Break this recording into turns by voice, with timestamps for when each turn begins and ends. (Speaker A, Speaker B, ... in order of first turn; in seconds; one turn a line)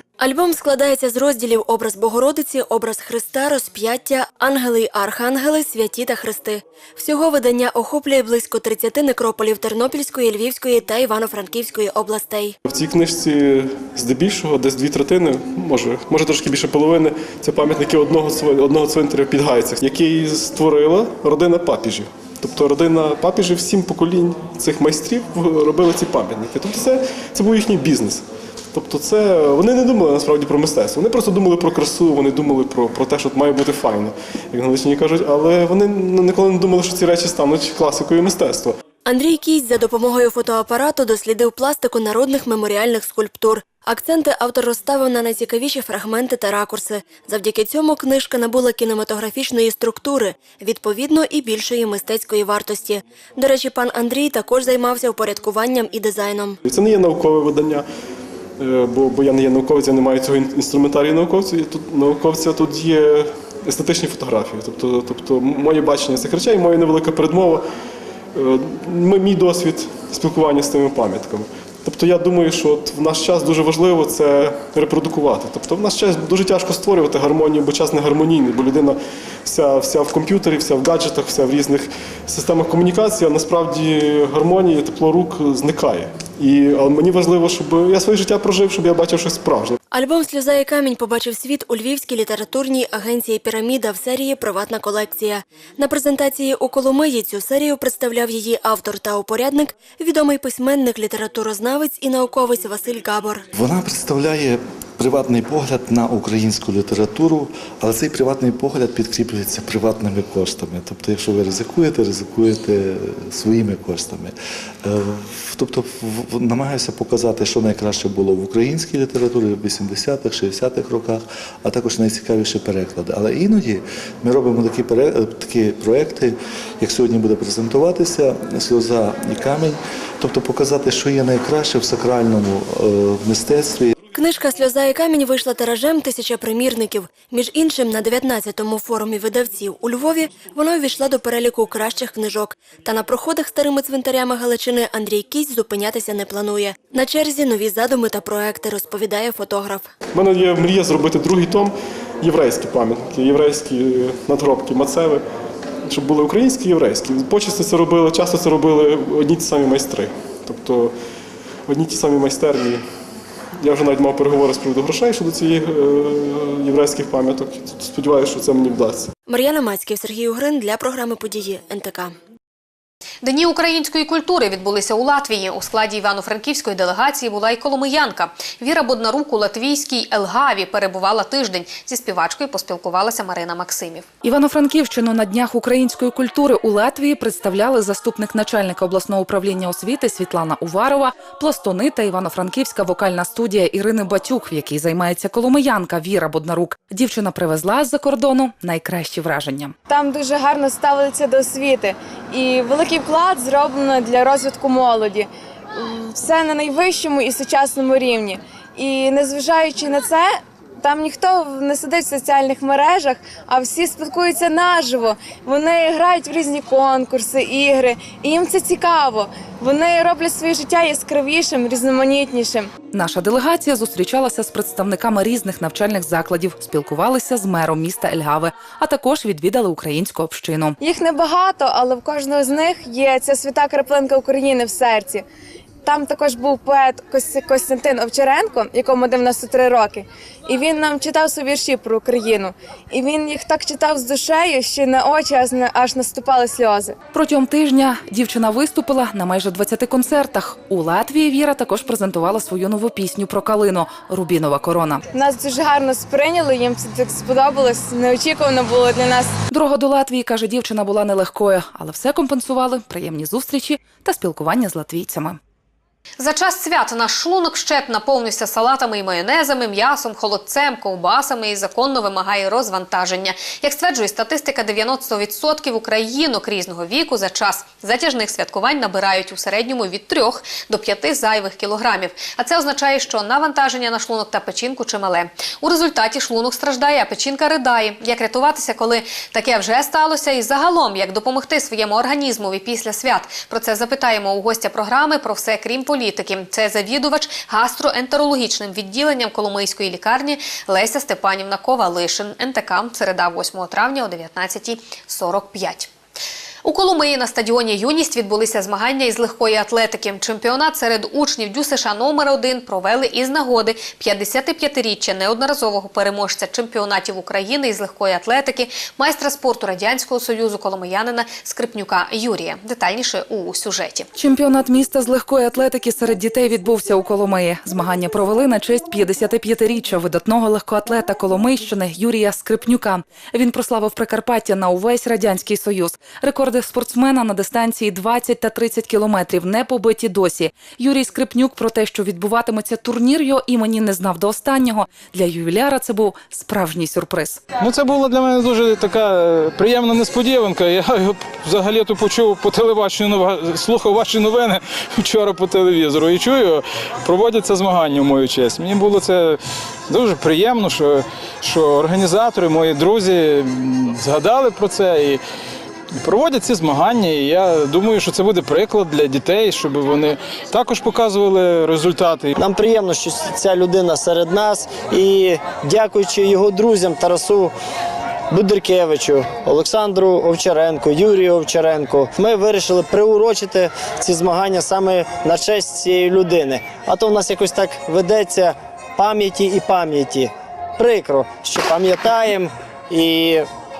Speaker A: 0.2-12.6
Speaker B: 12.7-38.8
Speaker A: 39.0-56.6
Speaker B: 56.6-57.8
Speaker B: 58.6-67.6
Speaker B: 68.3-89.7
Speaker A: 89.9-103.5
Speaker C: 103.5-133.9
Speaker A: 134.1-149.9
Speaker B: 150.1-155.2
Speaker B: 155.8-160.9
Speaker B: 161.7-162.8
Speaker B: 163.6-169.1
Speaker A: 169.3-172.1
Speaker D: 173.2-184.1
Speaker E: 184.2-199.7
Speaker F: 199.9-222.7
Speaker E: 222.9-230.8
Speaker F: 230.8-235.2
Speaker F: 235.8-246.9
Speaker E: 247.1-255.0
Speaker F: 255.1-259.4
Speaker E: 259.5-265.4
Speaker D: 266.2-305.9
Speaker D: 306.6-324.1
Speaker E: 324.1-347.4
Speaker G: 347.6-365.2
Speaker G: 366.0-372.3
Speaker H: 372.4-377.5
Speaker H: 378.3-393.5